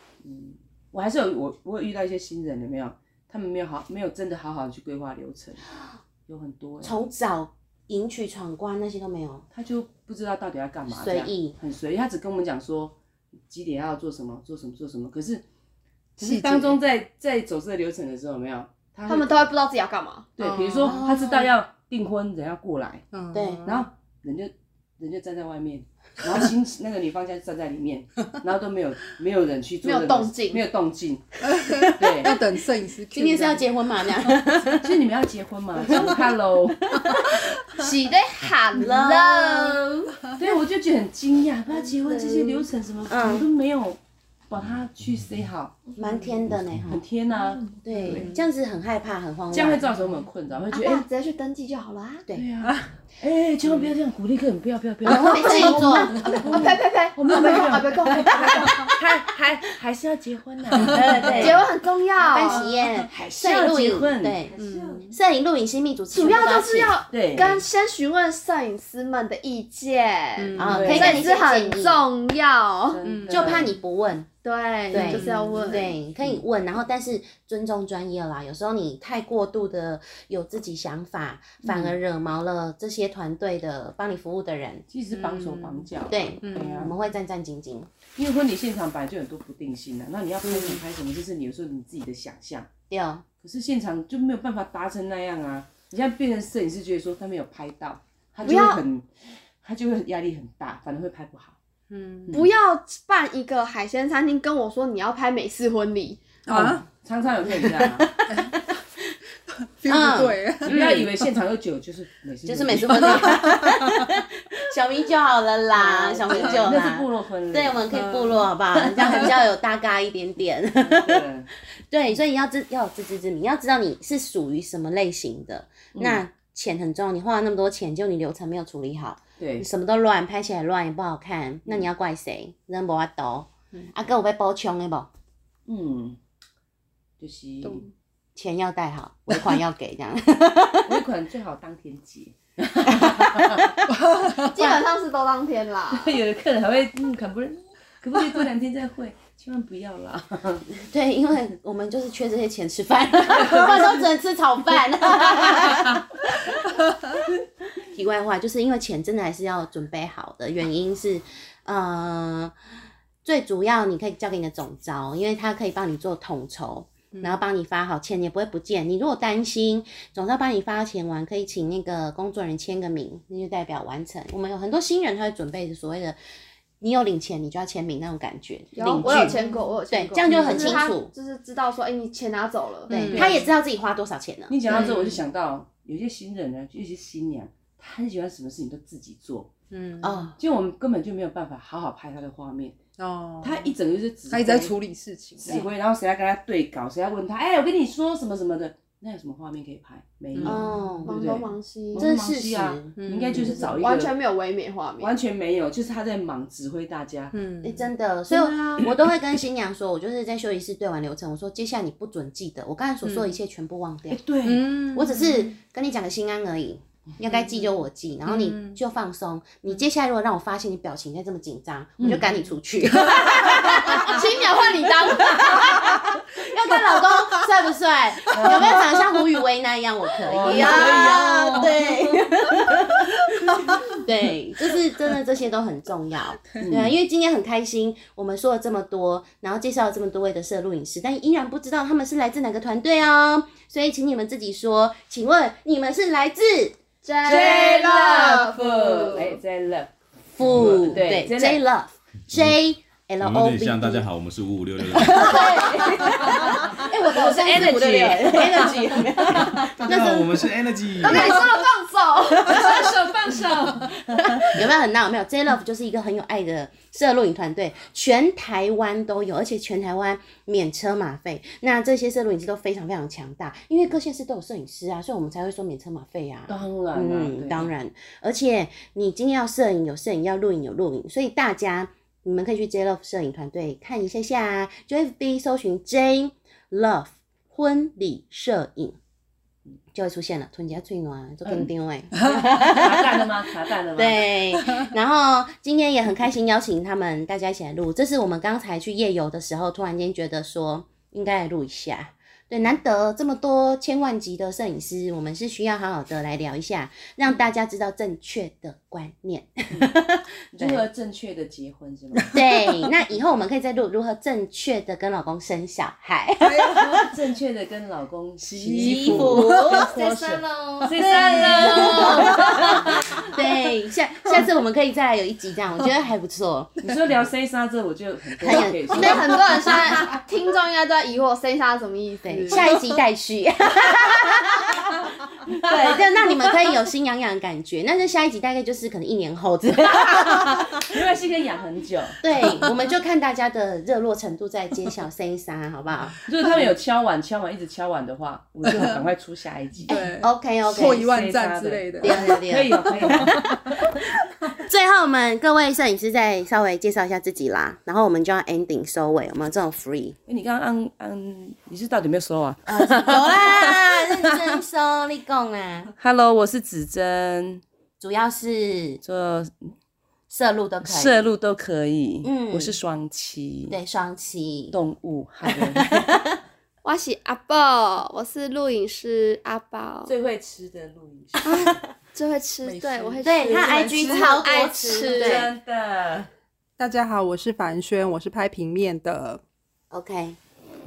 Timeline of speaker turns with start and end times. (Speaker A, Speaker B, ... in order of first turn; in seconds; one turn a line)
Speaker A: 0.2-5.7
Speaker A: 6.3-6.9
Speaker B: 6.8-9.4
Speaker A: 9.5-12.9
Speaker B: 10.9-11.6
Speaker A: 13.5-15.4
Speaker A: 16.2-19.5
Speaker C: 16.2-16.8
Speaker D: 19.1-20.3
Speaker A: 20.4-23.0
Speaker C: 20.4-21.1
Speaker B: 20.8-21.3
Speaker C: 23.1-23.9
Speaker B: 23.3-23.6
Speaker A: 23.6-31.3
Speaker D: 29.8-30.6
Speaker C: 31.4-34.4
Speaker A: 31.8-32.4
Speaker B: 33.1-34.9
Speaker A: 34.8-37.2
Speaker D: 37.7-40.2
Speaker B: 38.7-39.8
Speaker A: 40.3-45.9
Speaker D: 42.0-42.7
Speaker B: 43.1-43.5
Speaker B: 46.0-47.0
Speaker E: 46.5-46.8
Speaker A: 46.9-48.3
Speaker B: 47.8-49.8
Speaker C: 48.0-48.4
Speaker A: 49.5-51.0
Speaker D: 50.7-52.2
Speaker A: 52.3-61.6
Speaker B: 55.1-56.4
Speaker D: 55.1-58.9
Speaker B: 60.8-61.7
Speaker D: 61.4-62.7
Speaker B: 62.2-64.6
Speaker A: 63.1-65.1
Speaker C: 64.6-65.2
Speaker B: 65.1-67.0
Speaker D: 66.1-73.0
Speaker A: 67.1-67.6
Speaker C: 70.4-71.1
Speaker B: 70.6-72.0
Speaker A: 70.6-71.3
Speaker A: 72.9-73.8
Speaker C: 73.0-73.7
Speaker B: 73.3-74.3
Speaker D: 74.4-75.9
Speaker B: 74.9-84.8
Speaker C: 74.9-75.9
Speaker A: 81.6-81.9
Speaker A: 84.9-86.9
Speaker C: 85.1-85.9
Speaker B: 86.1-87.9
Speaker C: 86.4-86.9
Speaker A: 88.2-92.7
Speaker B: 90.4-90.8
Speaker B: 92.9-93.2
Speaker A: 93.4-101.6
Speaker D: 98.4-98.8
Speaker C: 101.9-102.4
Speaker A: 102.3-102.5
Speaker D: 102.3-106.2
Speaker C: 106.5-106.9
Speaker A: 106.5-108.1
Speaker C: 108.3-108.6
Speaker B: 108.3-108.7
Speaker C: 109.6-110.8
Speaker B: 109.9-111.1
Speaker A: 110.6-113.4
Speaker B: 112.5-135.1
Speaker C: 113.2-114.0
Speaker A: 115.9-118.1
Speaker C: 116.3-116.7
Speaker C: 117.9-118.4
Speaker A: 118.8-119.3
Speaker A: 120.8-121.5
Speaker A: 125.9-126.2
Speaker A: 129.4-129.7
Speaker A: 135.7-136.2
Speaker A: 137.2-137.8
Speaker C: 137.6-137.9
Speaker B: 138.4-141.0
Speaker A: 140.9-143.7
Speaker B: 143.0-143.7
Speaker C: 143.9-144.5
Speaker D: 144.4-146.1
Speaker A: 145.9-150.7
Speaker B: 150.8-156.1
Speaker A: 153.3-154.0
Speaker A: 155.1-155.9
Speaker B: 157.9-162.5
Speaker B: 163.2-176.2
Speaker C: 167.1-167.4
Speaker B: 176.8-179.3
Speaker D: 178.7-183.1
Speaker C: 179.0-179.6
Speaker A: 179.1-179.4
Speaker B: 179.9-181.1
Speaker A: 180.3-180.7
Speaker C: 180.5-180.8
Speaker C: 182.9-183.4
Speaker B: 182.9-184.8
Speaker A: 183.1-183.5
Speaker A: 184.5-189.5
Speaker C: 184.7-185.1
Speaker C: 189.7-190.2
Speaker B: 190.0-190.4
Speaker A: 190.4-192.8
Speaker C: 193.0-193.7
Speaker A: 193.4-194.7
Speaker C: 194.3-195.6
Speaker A: 195.4-204.2
Speaker C: 200.3-200.8
Speaker B: 200.4-201.1
Speaker D: 201.1-202.1
Speaker B: 202.0-203.8
Speaker C: 203.0-203.8
Speaker D: 203.7-205.1
Speaker A: 205.0-207.4
Speaker C: 207.3-207.9
Speaker B: 207.6-214.2
Speaker A: 208.3-208.9
Speaker A: 214.1-214.8
Speaker C: 214.4-215.6
Speaker B: 214.8-246.8
Speaker C: 218.2-218.8
Speaker A: 222.0-222.3
Speaker D: 223.3-225.9
Speaker A: 228.3-228.6
Speaker A: 230.3-232.3
Speaker A: 236.6-236.9
Speaker D: 247.0-249.4
Speaker A: 247.2-251.6
Speaker B: 250.3-254.1
Speaker E: 252.3-252.6
Speaker E: 253.2-255.6
Speaker B: 255.0-260.5
Speaker A: 255.0-259.3
Speaker E: 259.5-261.5
Speaker D: 261.0-263.0
Speaker B: 261.1-261.4
Speaker A: 262.4-264.4
Speaker B: 264.4-289.0
Speaker A: 276.5-277.7
Speaker B: 289.9-293.3
Speaker A: 292.6-294.4
Speaker B: 293.9-310.9
Speaker A: 310.5-312.4
Speaker C: 312.2-312.9
Speaker B: 312.3-317.1
Speaker C: 316.4-317.1
Speaker A: 316.9-323.3
Speaker C: 318.6-320.1
Speaker B: 318.6-326.7
Speaker C: 321.0-322.6
Speaker A: 326.8-329.4
Speaker B: 328.4-330.1
Speaker D: 328.9-332.8
Speaker B: 332.2-340.8
Speaker A: 340.3-342.2
Speaker B: 342.2-346.2
Speaker A: 346.3-350.0
Speaker C: 348.6-349.1
Speaker C: 349.9-353.9
Speaker B: 349.9-351.1
Speaker A: 350.8-353.6
Speaker B: 352.0-353.4
Speaker B: 354.6-360.1
Speaker A: 360.3-364.1
Speaker B: 362.6-365.9
Speaker A: 366.0-367.6
Speaker B: 368.0-369.0
Speaker A: 369.0-369.7
Speaker B: 370.3-371.3
Speaker A: 370.8-373.8
Speaker B: 372.2-372.8
Speaker B: 373.7-374.8
Speaker A: 374.7-376.1
Speaker B: 375.8-376.4
Speaker D: 376.8-380.1
Speaker A: 380.1-381.8
Speaker D: 381.4-385.5
Speaker A: 382.6-386.3
Speaker B: 383.2-385.5
Speaker C: 386.8-389.4
Speaker B: 389.9-390.4